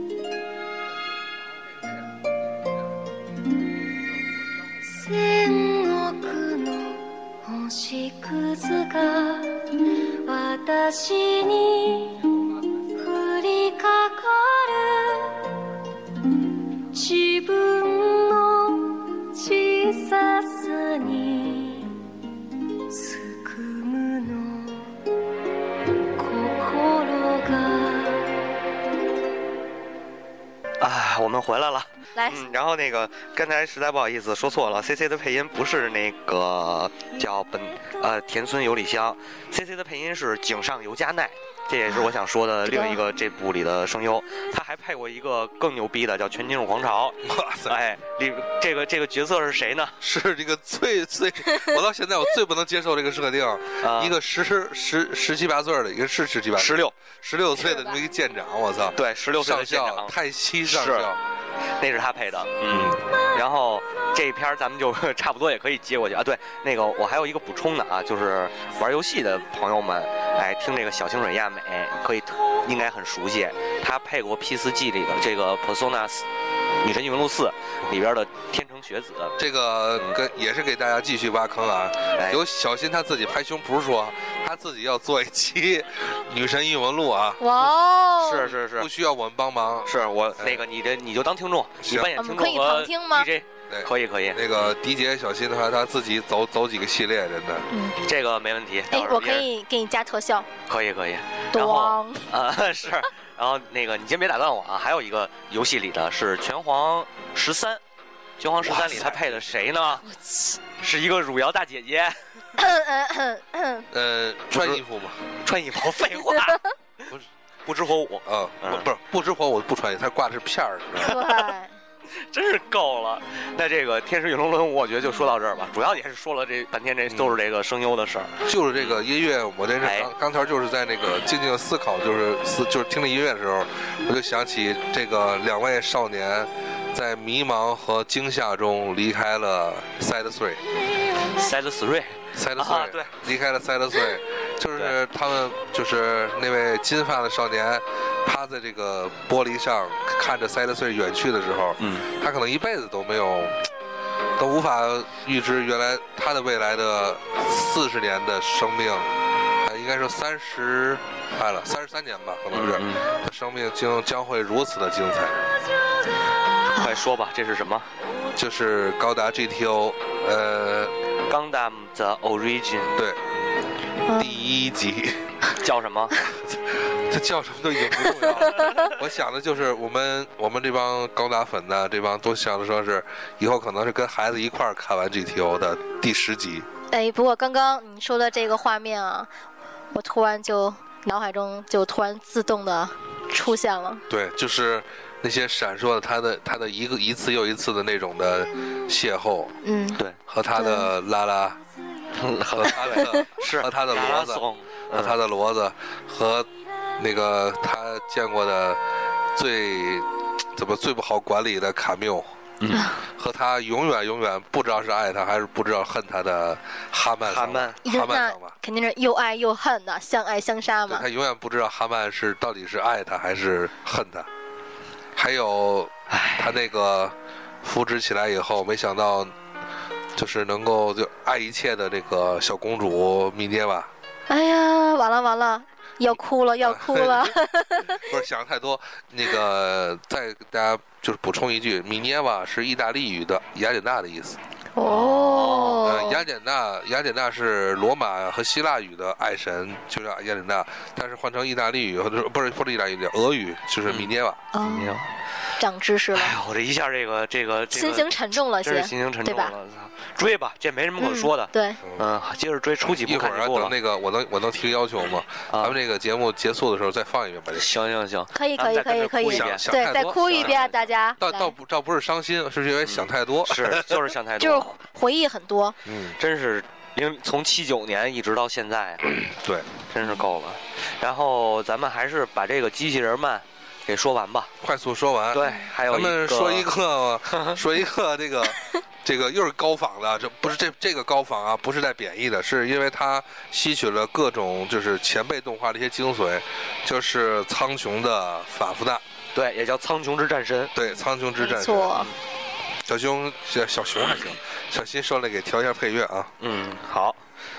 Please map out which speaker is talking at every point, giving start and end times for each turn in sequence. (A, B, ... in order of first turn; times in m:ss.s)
0:04.9-0:12.2 A
0:12.9-0:15.4 A
0:16.8-0:22.0 A
0:22.9-0:24.9 A
0:26.2-0:28.3 A
0:30.8-0:50.0 B
0:32.2-0:32.5 C
0:42.7-0:43.0 C
0:47.2-0:47.8 D
0:50.0-1:01.2 D
0:53.8-0:54.2 B
0:56.6-0:57.0 B
0:57.6-0:58.0 C
0:59.0-1:00.1 B
1:00.6-1:01.1 B
1:01.8-1:16.2 B
1:02.7-1:03.0 D
1:16.8-1:19.4 B
1:19.4-1:27.4 D
1:22.2-1:22.4 B
1:27.4-1:28.5 C
1:27.6-1:28.9 B
1:28.6-1:30.6 D
1:29.8-1:34.7 B
1:31.8-1:32.1 D
1:32.2-1:33.3 C
1:33.7-1:37.7 D
1:37.7-1:38.0 C
1:38.0-1:39.5 B
1:38.9-1:40.5 C
1:40.7-1:47.8 B
1:41.5-1:42.3 C
1:48.4-1:50.0 B
1:48.6-1:49.7 D
1:50.8-1:52.2 B
1:52.6-1:53.9 C
1:53.9-1:55.2 D
1:54.5-1:54.8 B
1:55.4-1:57.0 B
1:57.6-1:58.9 B
1:58.2-2:01.1 D
2:01.0-2:01.5 B
2:01.0-2:01.7 C
2:02.1-2:09.0 B
2:07.1-2:07.3 D
2:08.4-2:20.6 D
2:09.8-2:10.1 B
2:21.3-2:23.1 B
2:22.3-2:33.7 D
2:31.8-2:32.0 B
2:34.4-2:45.4 D
2:42.5-2:43.1 B
2:46.8-2:47.0 C
2:46.8-2:47.9 B
2:48.3-2:50.9 D
2:51.3-2:53.0 B
2:53.0-2:53.2 D
2:54.1-2:54.5 C
2:54.1-2:55.4 D
2:55.6-2:56.2 B
2:56.3-3:06.7 D
2:58.3-2:58.9 B
3:06.9-3:09.3 C
3:09.9-3:14.0 C
3:14.1-3:19.5 D
3:19.6-3:20.0 C
3:20.3-3:21.6 D
3:20.6-3:20.9 C
3:22.1-3:25.2 B
3:22.5-3:28.8 D
3:23.0-3:23.2 C
3:29.3-3:32.3 D
3:32.6-3:32.9 B
3:32.7-3:33.0 C
3:33.0-3:38.6 D
3:37.3-3:37.8 B
3:37.8-3:41.0 C
3:40.9-3:44.3 D
3:45.1-3:49.4 D
3:46.1-3:46.6 B
3:50.1-3:53.9 D
3:54.3-3:58.1 C
3:56.6-3:57.3 D
3:57.9-4:04.4 D
4:04.8-4:06.2 C
4:04.9-4:06.0 B
4:05.8-4:14.4 D
4:13.8-4:15.1 B
4:14.5-4:15.0 C
4:15.6-4:16.3 C
4:16.1-4:23.7 B
4:17.7-4:19.5 C
4:21.0-4:21.8 C
4:23.0-4:27.7 D
4:25.5-4:25.8 B
4:27.5-4:30.8 B
4:28.3-4:31.5 C
4:29.3-4:30.6 D
4:31.2-4:34.0 D
4:32.8-4:34.8 B
4:34.4-4:35.8 C
4:35.8-4:36.2 D
4:36.2-4:39.1 B
4:39.1-4:39.7 D
4:39.9-4:44.5 B
4:44.6-4:59.0 D
4:45.3-4:46.7 B
4:47.3-4:47.6 B
4:59.3-5:00.7 B
5:00.7-5:02.1 D
5:01.4-5:02.1 C
5:02.8-5:06.3 D
5:06.4-5:07.2 B